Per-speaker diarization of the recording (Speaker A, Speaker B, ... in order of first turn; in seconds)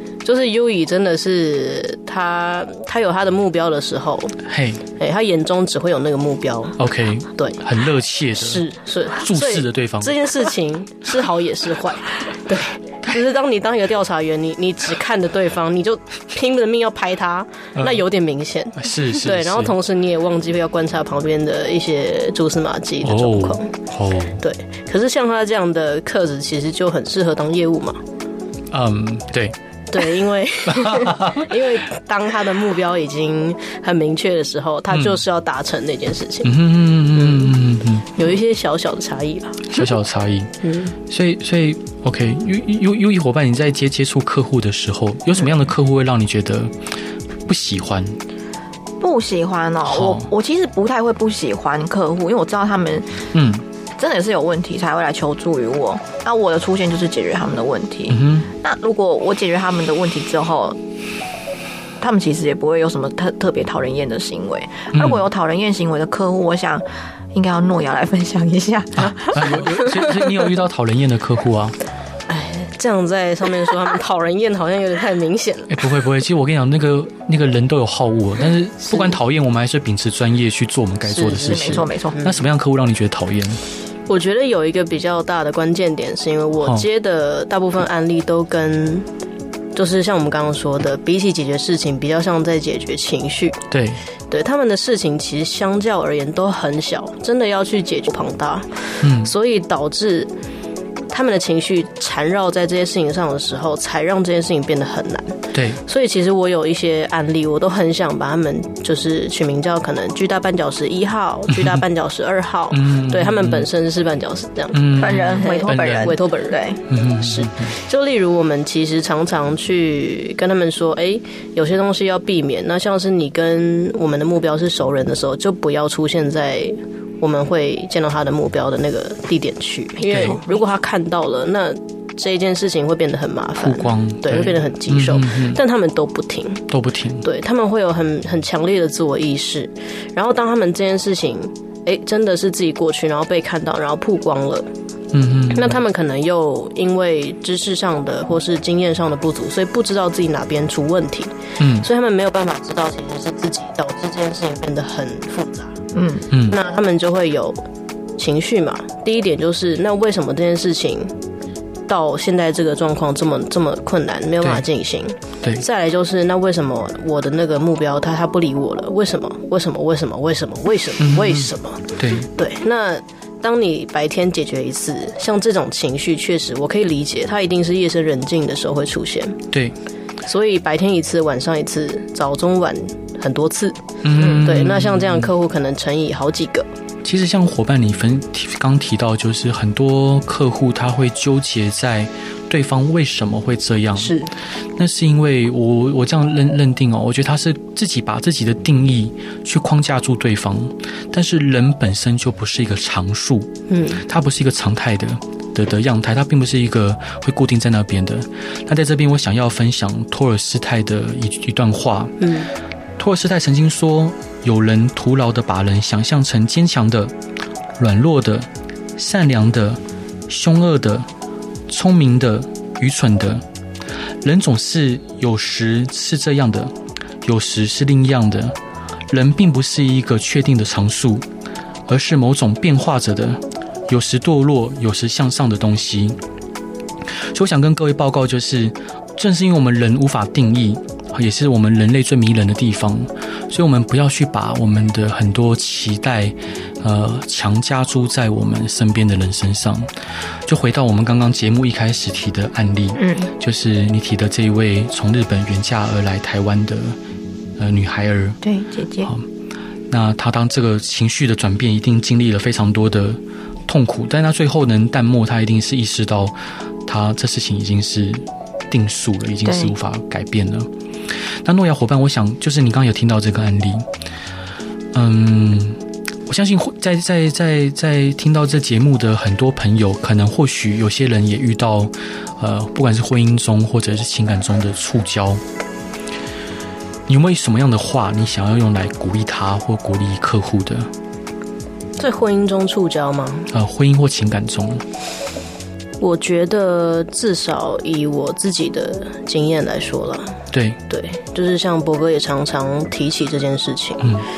Speaker A: 0.2-4.4, 5.0-6.8, 7.4-7.7, 8.4-23.7, 24.4-28.0, 29.9-37.6, 38.1-39.8, 40.6-41.0, 72.3-75.9, 78.9-79.2, 81.1-82.4, 84.1-89.1, 89.8-93.6, 94.3-100.3, 101.1-136.7, 137.2-144.7, 145.5-155.8, 156.5-157.6, 158.2-161.1, 161.9-179.4, 180.3-186.7, 194.0-194.3, 203.7-204.0, 212.2-212.5, 292.0-293.5, 296.0-300.4, 300.9-304.2
Speaker B: 4.5-4.8, 6.8-10.2, 17.8-18.0, 18.8-19.8, 23.0-24.4, 28.7-29.6, 30.7-31.5, 34.9-35.2, 36.4-38.2, 39.7-40.5, 41.1-46.7, 47.5-48.2, 49.9-50.3, 53.3-53.6, 58.1-58.5, 64.9-65.2, 69.0-71.8, 75.7-83.6, 86.6-86.9, 93.7-94.0, 99.0-99.3, 105.5-105.8, 111.5-111.8, 112.7-113.7, 114.7-116.2, 116.9-117.7, 130.1-130.4, 133.6-135.6, 136.7-137.2, 145.1-145.8, 151.6-151.9, 156.3-156.6, 171.0-172.3, 184.0-185.3, 187.0-194.2, 194.8-212.3, 213.0-217.1, 217.8-221.1, 221.7-223.4, 224.2-228.6, 229.1-231.3, 231.9-236.2, 237.3-257.0, 257.6-258.4, 259.9-270.7, 271.3-273.9, 274.9-285.4, 287.1-290.9, 293.5-294.8, 300.5-300.8
Speaker C: 49.0-53.2, 54.0-60.8, 62.0-69.9, 81.4-82.3, 115.0-116.8, 155.9-156.3, 252.9-253.3, 258.4-259.1, 269.5-269.7